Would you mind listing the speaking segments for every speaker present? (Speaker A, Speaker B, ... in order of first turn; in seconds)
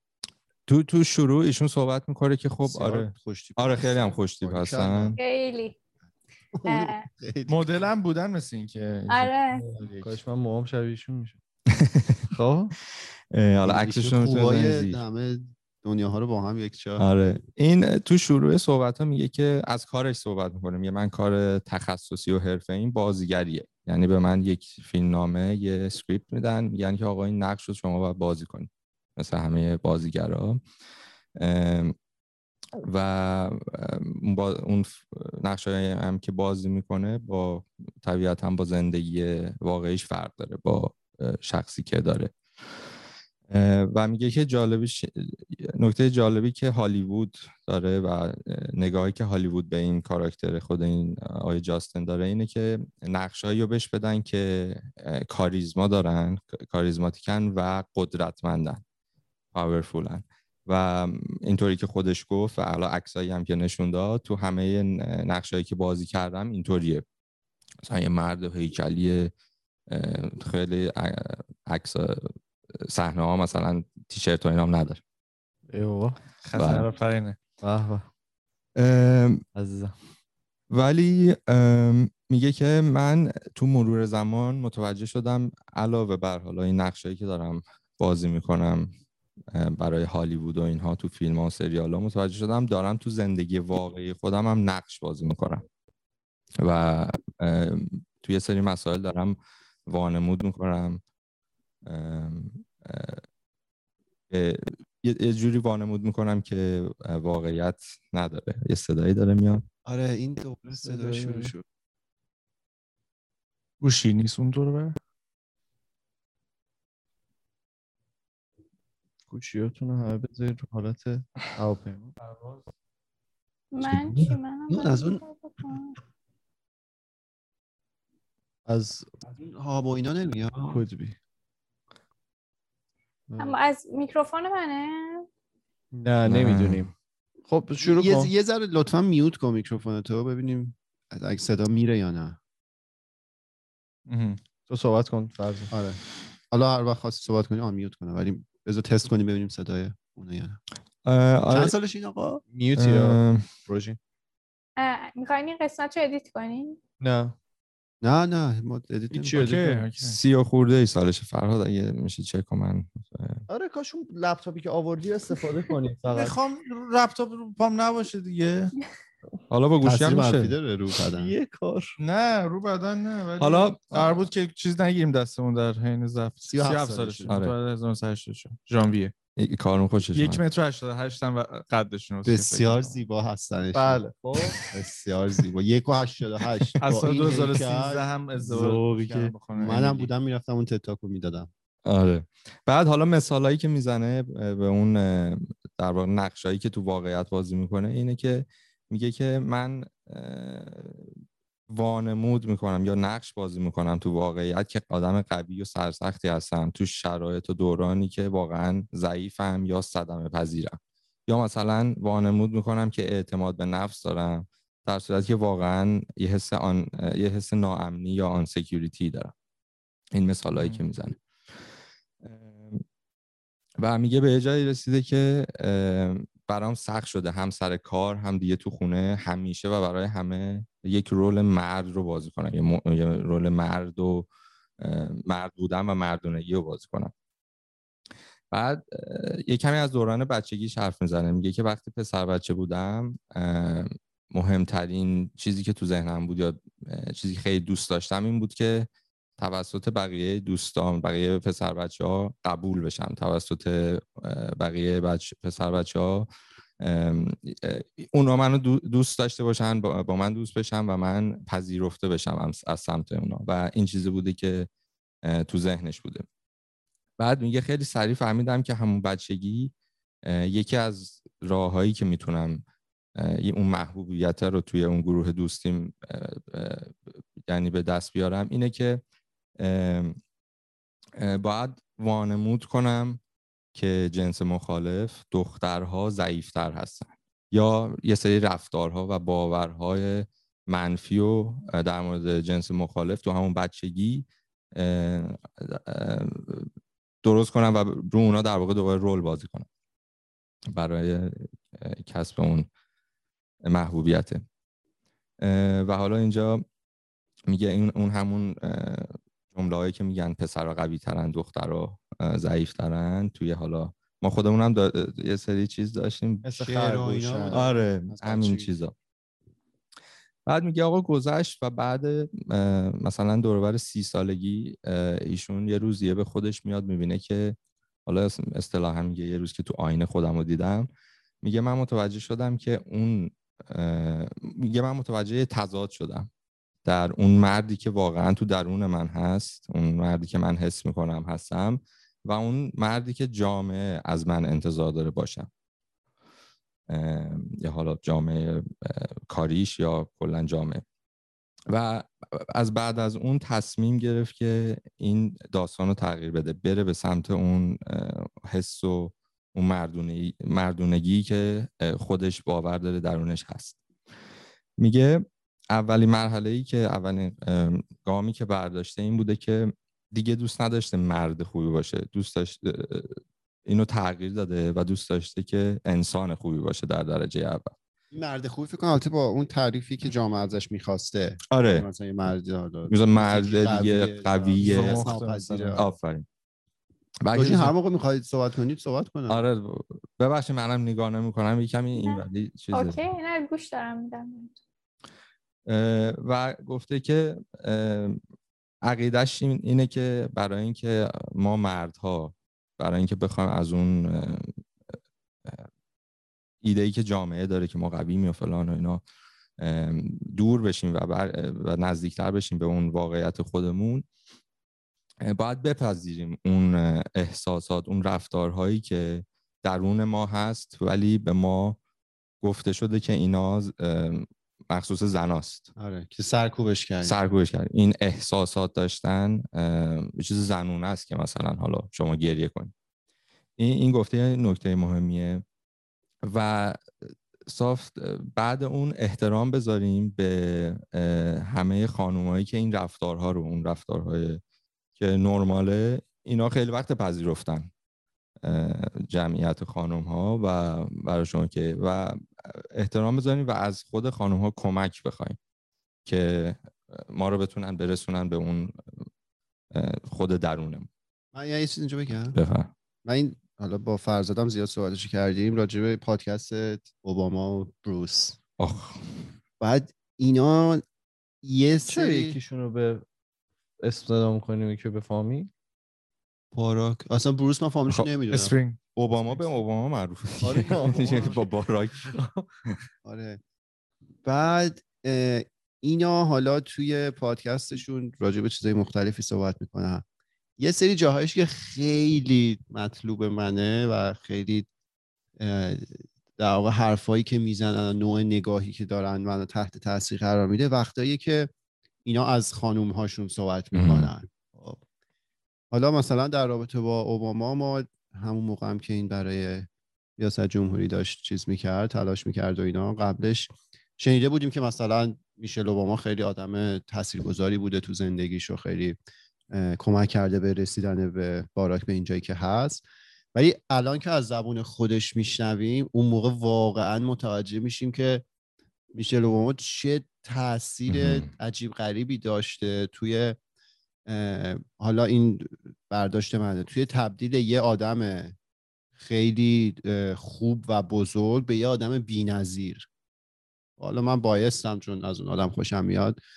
Speaker A: 0.7-5.2, 11.7-12.3, 13.3-15.0, 17.0-30.6, 31.4-31.9, 32.8-42.3, 43.5-58.8, 59.5-67.0, 67.8-69.3, 69.9-72.3, 72.8-75.0, 76.5-76.9, 78.8-79.4, 80.7-88.9, 89.5-95.7, 96.6-101.0, 101.8-103.2, 104.3-109.6, 136.2-136.8, 151.0-151.7, 152.8-153.5, 160.0-163.4, 169.5-170.6, 173.4-174.2, 177.3-177.5, 179.4-180.4, 191.8-201.1, 201.7-219.3, 220.1-221.2, 222.2-222.8, 223.8-234.3, 234.8-237.1, 238.5-256.3, 256.8-264.7, 265.2-266.2, 267.2-269.7, 270.2-272.6, 273.1-279.0, 279.6-280.2, 281.2-283.2, 283.7-296.7, 297.2-299.7, 300.7-302.7, 303.6-304.4, 305.4-306.6, 307.5-316.5, 317.5-318.9, 320.4-330.9, 331.4-336.3, 336.8-345.5, 346.9-350.8, 351.7-363.8, 364.8-377.7, 381.5-381.9, 382.9-385.1, 385.8-386.2, 387.2-387.7, 389.3-393.0, 395.6-398.2, 398.8-404.6, 406.6-409.0, 409.6-414.1, 415.2-421.8, 422.4-425.7, 427.0-432.7, 433.6-435.4, 436.2-436.8, 437.5-444.4, 445.0-447.7, 448.4-455.4, 456.1-458.8, 459.7-460.9, 462.3-462.7, 468.6-469.2, 478.9-482.1, 503.7-504.1, 530.9-531.3
Speaker B: 2.6-5.2, 6.5-7.6, 9.8-10.1, 13.7-17.0, 109.8-111.6, 124.7-125.2, 129.3-130.8, 137.8-142.4, 145.7-146.0, 146.5-150.6, 151.5-152.4, 158.0-159.7, 169.8-171.3, 176.4-177.4, 182.2-184.0, 184.7-191.5, 316.6-318.7, 378.1-385.9, 387.3-389.4, 425.8-427.1, 461.3-462.4, 463.0-468.4, 469.6-470.8, 471.4-472.4, 476.5-478.5, 480.6-481.4, 483.0-483.4, 484.2-490.0, 490.6-494.7, 495.4-501.5, 502.0-504.8, 505.7-519.0, 519.5-522.8, 523.3-528.2, 528.9-533.4, 534.1-538.3, 539.0-542.9, 543.8-546.2
Speaker C: 5.2-5.7, 6.7-7.0, 9.1-9.6, 123.7-126.0, 133.4-135.2, 154.8-156.8, 392.0-394.6
Speaker D: 7.5-9.8, 76.4-77.3, 113.8-115.0, 122.2-122.6, 144.1-144.4, 159.2-160.2, 166.1-168.7, 172.0-179.1, 180.1-183.0, 186.8-190.1, 220.6-220.9, 384.6-385.8, 478.2-478.8
Speaker E: 9.8-11.4, 12.3-12.7, 75.7-76.2, 77.6-78.1, 79.5-79.9, 110.7-111.5, 119.3-122.1, 128.7-129.1, 130.6-131.2, 133.3-133.6, 135.9-136.9, 137.5-138.3, 144.7-145.7, 152.5-154.0, 157.0-157.3, 159.1-159.6, 163.5-166.3, 171.1-171.9, 183.7-184.6, 316.4-317.7, 384.6-385.8, 471.9-473.0, 473.8-475.5, 480.4-481.5, 482.0-482.5